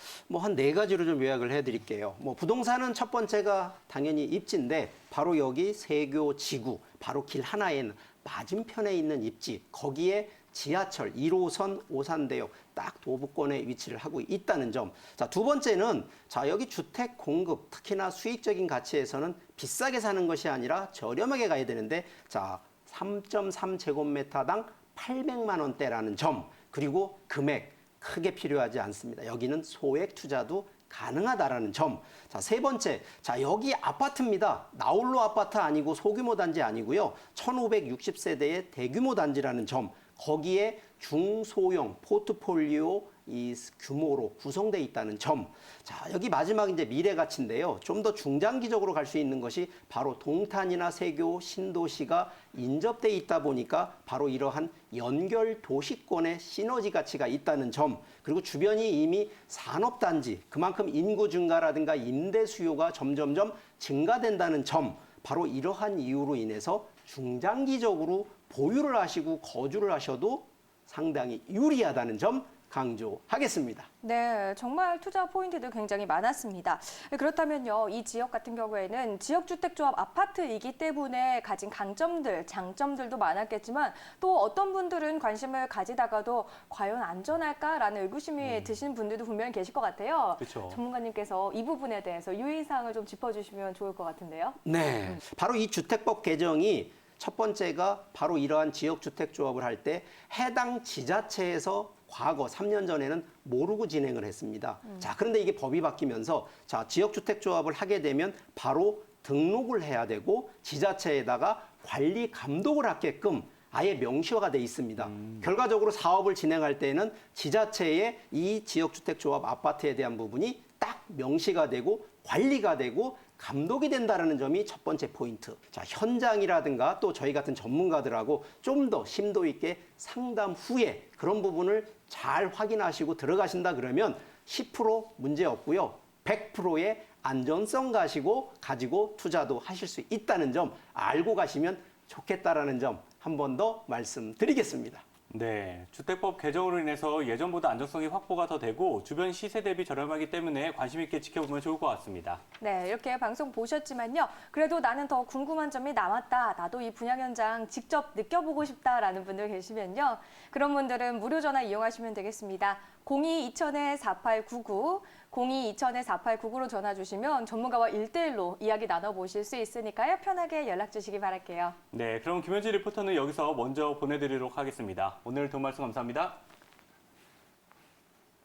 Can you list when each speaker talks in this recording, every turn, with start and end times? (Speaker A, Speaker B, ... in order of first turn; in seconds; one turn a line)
Speaker A: 0.3-73.9
Speaker B: 74.0-95.2
Speaker C: 88.4-88.7
Speaker C: 90.4-90.8
Speaker A: 94.6-145.0
Speaker C: 115.0-115.5
Speaker C: 145.3-152.4
Speaker B: 152.6-171.8
Speaker C: 171.9-176.4